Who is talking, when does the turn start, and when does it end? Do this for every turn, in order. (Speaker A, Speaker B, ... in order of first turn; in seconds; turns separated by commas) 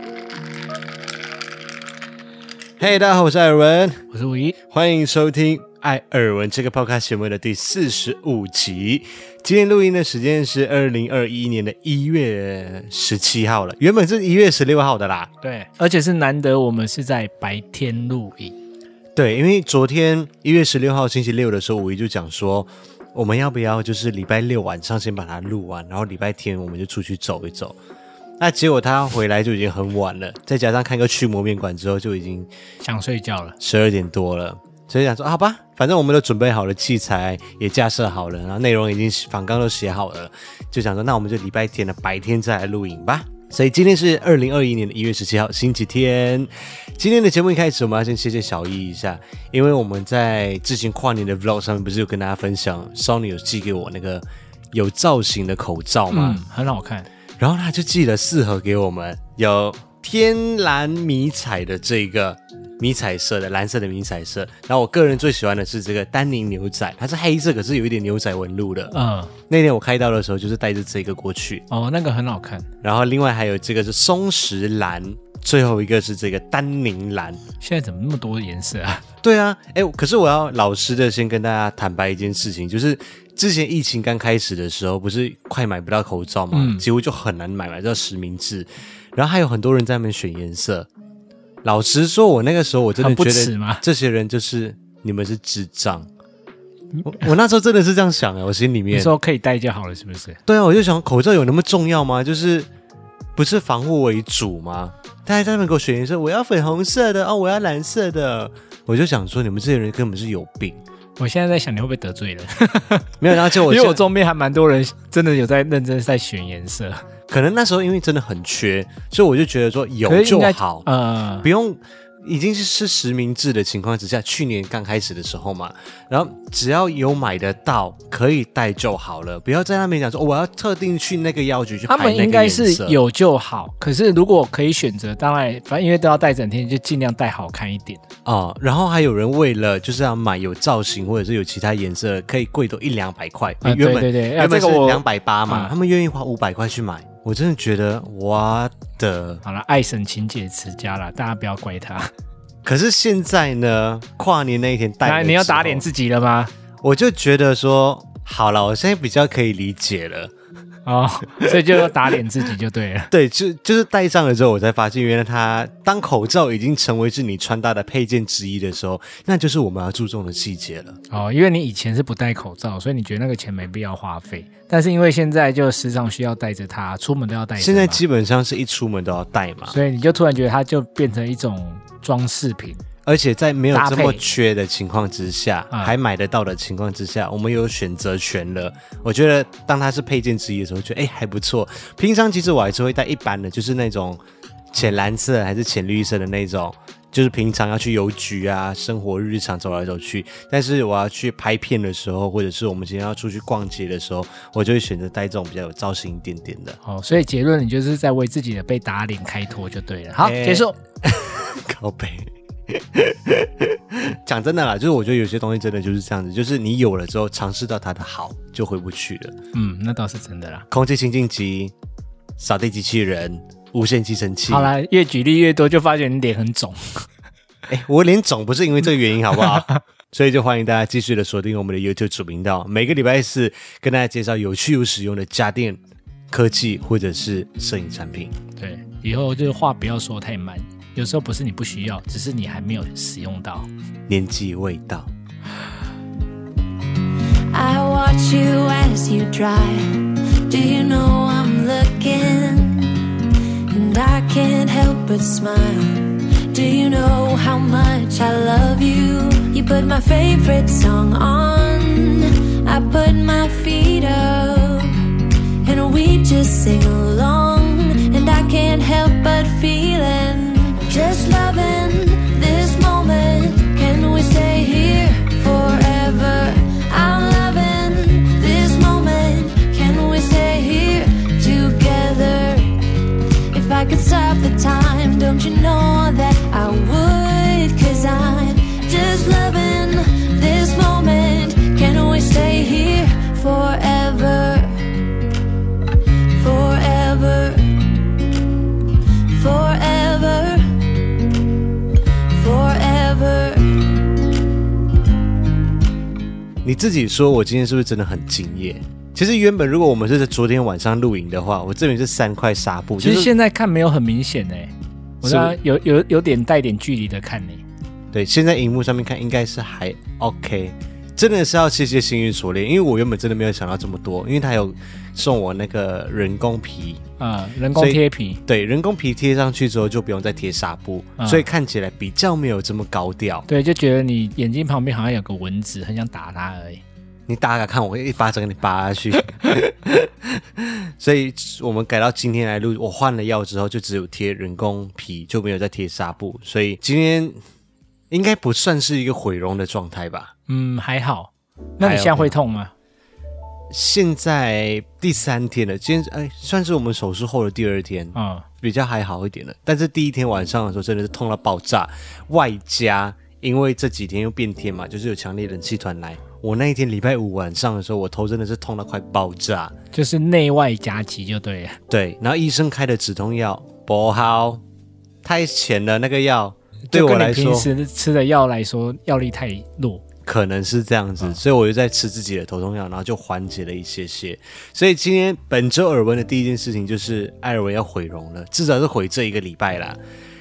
Speaker A: 2.8-4.0, Speaker B: 4.1-4.6, Speaker A: 4.7-15.3, Speaker B: 15.4-18.6, Speaker A: 19.1-27.8, Speaker A: 28.4-32.5, Speaker B: 32.8-33.6, Speaker A: 33.6-56.4, Speaker B: 56.1-57.1, Speaker A: 57.4-68.9, Speaker B: 68.9-69.3, Speaker A: 69.5-71.6, Speaker B: 71.7-72.7, Speaker A: 72.8-77.4, Speaker B: 77.6-79.0, Speaker A: 79.2-90.9, Speaker B: 86.5-86.8, Speaker A: 91.6-96.1, Speaker B: 93.0-93.8, Speaker A: 97.0-99.1, Speaker B: 98.9-100.4, Speaker A: 100.5-102.7, Speaker A: 103.3-110.8, Speaker B: 111.2-117.0, Speaker A: 113.2-114.1, Speaker A: 117.3-120.9, Speaker B: 120.0-121.5, Speaker A: 121.4-133.0, Speaker B: 131.9-138.0, Speaker A: 138.2-149.4, Speaker B: 143.6-145.7, Speaker B: 149.4-152.1, Speaker A: 152.6-155.9, Speaker B: 155.0-156.5, Speaker A: 156.8-160.3, Speaker B: 160.8-163.1, Speaker A: 161.5-161.9, Speaker A: 163.1-170.9, Speaker B: 171.1-178.0, Speaker A: 177.6-179.8, Speaker B: 179.7-182.8, Speaker A: 183.1-194.2, Speaker B: 183.7-184.2, Speaker A: 194.7-206.8, Speaker B: 206.8-210.8, Speaker A: 210.2-219.3, Speaker B: 219.5-220.7, Speaker A: 220.7-221.7, Speaker A: 222.4-224.7, Speaker B: 224.5-227.1, Speaker A: 227.7-238.3, Speaker B: 229.4-229.8, Speaker B: 238.6-243.7, Speaker A: 244.1-245.1, Speaker C: 247.5-265.1, Speaker C: 265.6-295.0, Speaker C: 296.3-298.2, Speaker C: 299.3-301.4, Speaker C: 302.3-304.2, Speaker A: 306.6-313.3, Speaker B: 313.0-317.6, Speaker A: 315.2-315.6, Speaker A: 318.1-327.0, Speaker B: 327.2-328.4, Speaker A: 327.7-333.4, Speaker B: 331.2-331.4, Speaker B: 333.5-336.8, Speaker A: 337.3-347.4, Speaker A: 348.1-350.3, Speaker B: 350.5-352.7, Speaker A: 351.8-352.4, Speaker A: 353.7-369.7, Speaker B: 358.1-358.4, Speaker B: 369.9-371.8, Speaker A: 371.9-374.6, Speaker A: 375.2-377.7, Speaker B: 376.9-380.0, Speaker A: 380.2-390.0